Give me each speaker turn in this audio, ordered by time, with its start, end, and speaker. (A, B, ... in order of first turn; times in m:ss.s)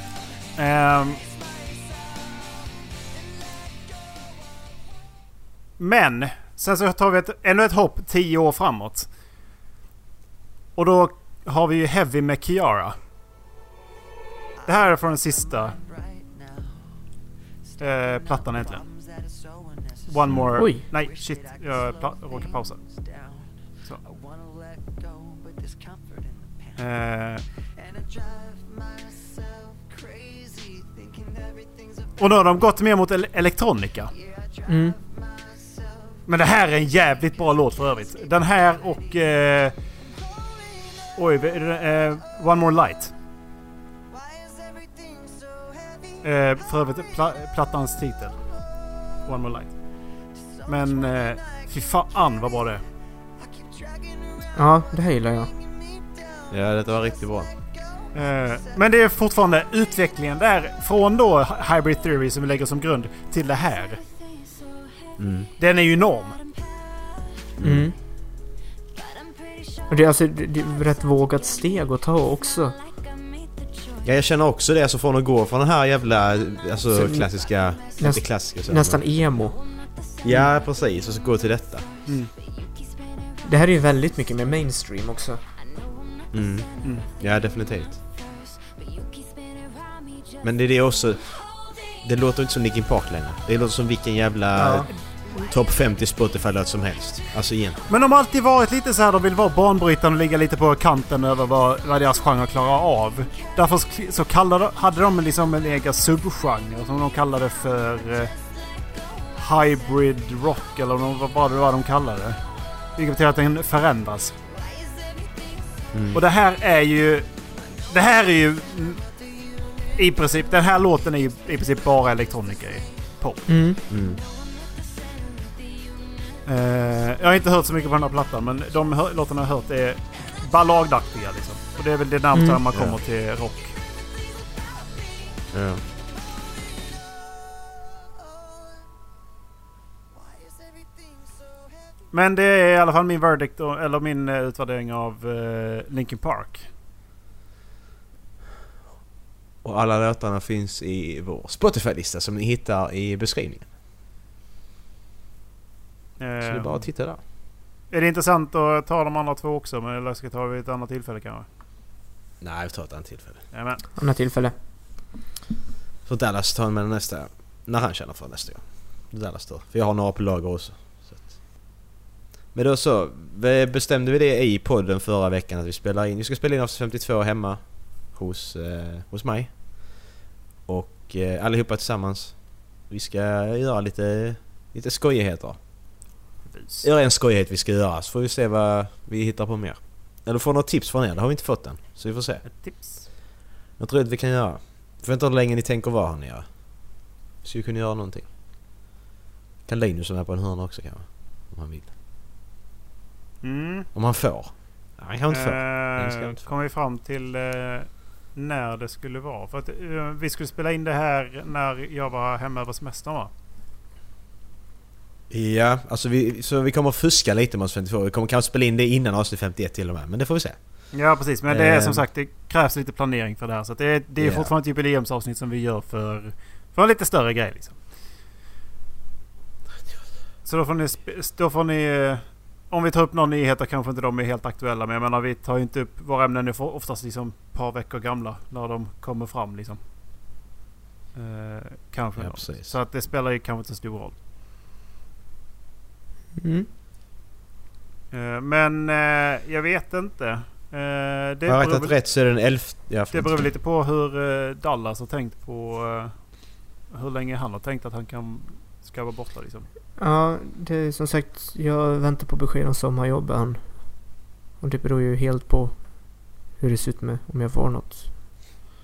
0:00.6-0:01.2 A
0:05.8-0:09.1 A
0:10.8-0:13.0 A
0:14.6-0:15.8 A
0:17.8-0:18.8 A
0:20.0-0:22.8 A
0:20.5-0:20.8 B
0:26.8-0:27.4 A
0:32.2-0:34.1 A
0:34.6-0:35.0 B
0:36.3-0:39.7 A
0:41.2-0:43.1 A
0:46.2-0:48.4 A
0:49.2-0:49.7 A
0:50.6-0:52.8 A
0:54.6-0:55.5 B
0:56.5-0:57.5 C
0:58.1-1:04.0 A
1:05.2-1:05.5 C
1:05.6-1:06.4 A
1:07.6-1:07.9 C
1:07.6-1:07.9 B
1:09.9-1:12.8 B
1:14.0-1:19.0 C
1:16.9-1:17.3 B
1:18.0-1:19.6 B
1:20.2-1:21.9 C
1:22.0-1:22.3 A
1:23.4-1:25.4 B
1:26.3-1:28.0 C
1:30.4-1:31.2 C
1:32.0-1:37.8 C
1:34.6-1:34.9 B
1:37.9-1:48.3 A
1:49.4-1:52.4 A
1:53.0-1:54.3 A
1:55.9-1:56.2 C
1:56.1-1:57.3 A
1:57.9-1:59.0 A
2:00.0-2:03.4 A
2:03.5-2:03.8 B
2:03.9-2:04.2 C
2:06.4-2:13.8 A
2:12.3-2:12.6 B
2:15.5-2:15.8 C
2:22.1-2:26.6 A
2:29.6-2:33.6 C
2:36.2-2:36.8 A
2:36.4-2:37.2 C
2:37.9-2:41.4 A
2:42.4-2:43.4 C
2:43.5-2:43.8 A
2:44.0-2:44.5 B
2:46.0-2:51.4 C
2:52.5-2:59.5 C
3:00.7-3:05.6 C
3:06.5-3:06.8 A
3:06.8-3:12.4 C
3:12.4-3:13.0 A
3:13.8-3:16.4 C
3:17.4-3:18.3 C
3:19.7-3:21.9 C
3:23.4-3:23.9 A
3:23.9-3:26.4 C
3:25.3-3:33.3 A
3:35.3-3:40.6 C
3:40.9-3:47.8 A
3:41.5-3:42.0 C
3:44.2-3:44.5 C
3:50.4-3:59.8 A
4:01.1-4:04.1 A
4:02.2-4:02.7 C
4:06.4-4:06.7 B
4:08.1-4:11.9 A
4:11.5-4:13.3 C
4:13.1-4:16.1 A
4:16.9-4:19.7 A
4:20.0-4:24.1 B
4:24.6-4:25.8 B
4:26.6-4:28.1 B